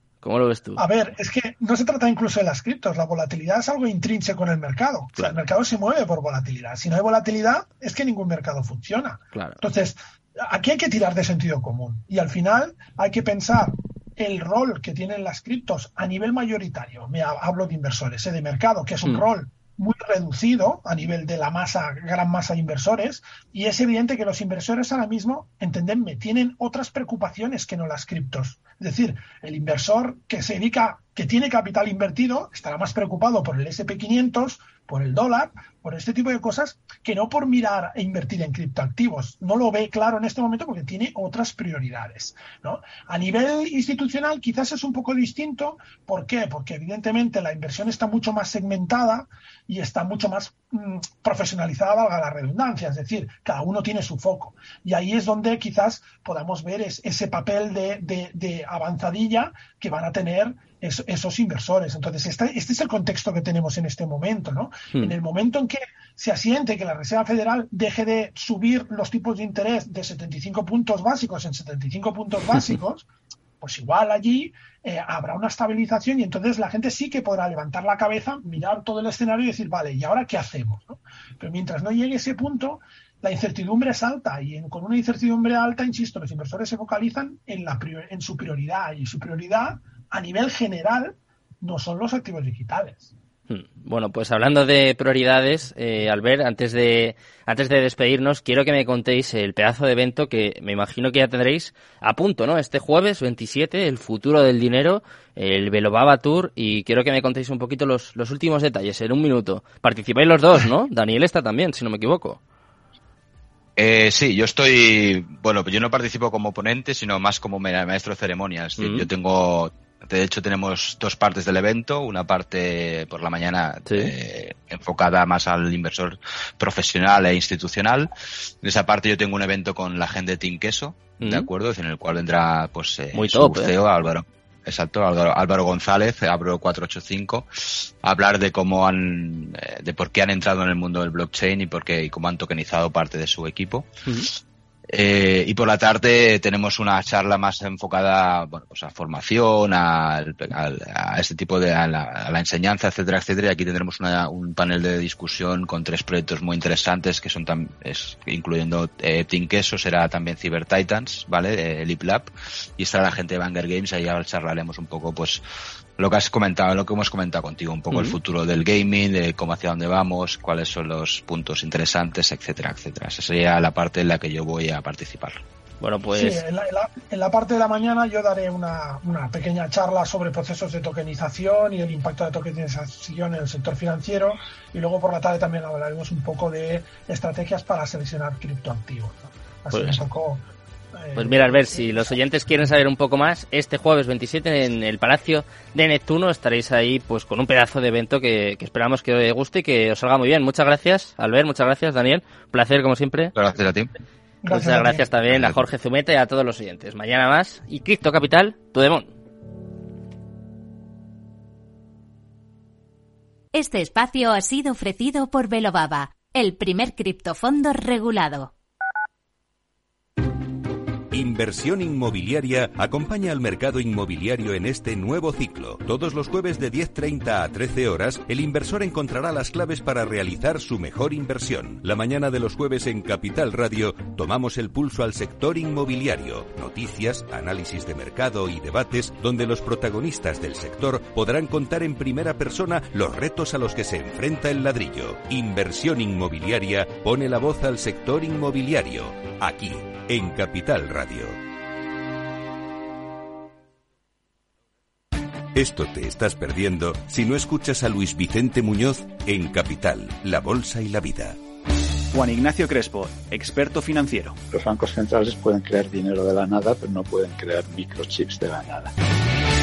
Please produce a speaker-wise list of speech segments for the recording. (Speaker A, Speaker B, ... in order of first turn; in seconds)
Speaker A: 0.2-0.8, 9.3-9.6, 93.5-112.4, 118.8-119.1, 123.9-124.1, 131.2-131.5, 133.1-133.7, 167.9-168.2, 175.8-176.4, 189.7-190.0, 191.2-203.3, 204.5-209.1
Speaker B: 0.8-73.1, 73.6-93.1, 176.1-190.4, 191.0-192.2, 204.4-205.0
Speaker C: 113.8-128.1, 128.6-143.9, 144.9-165.4, 166.0-175.4, 203.3-203.9, 205.3-205.6
Speaker D: 213.5-218.5
Speaker E: 221.1-251.4, 255.6-261.4
Speaker F: 262.1-264.4
Speaker G: 264.5-268.9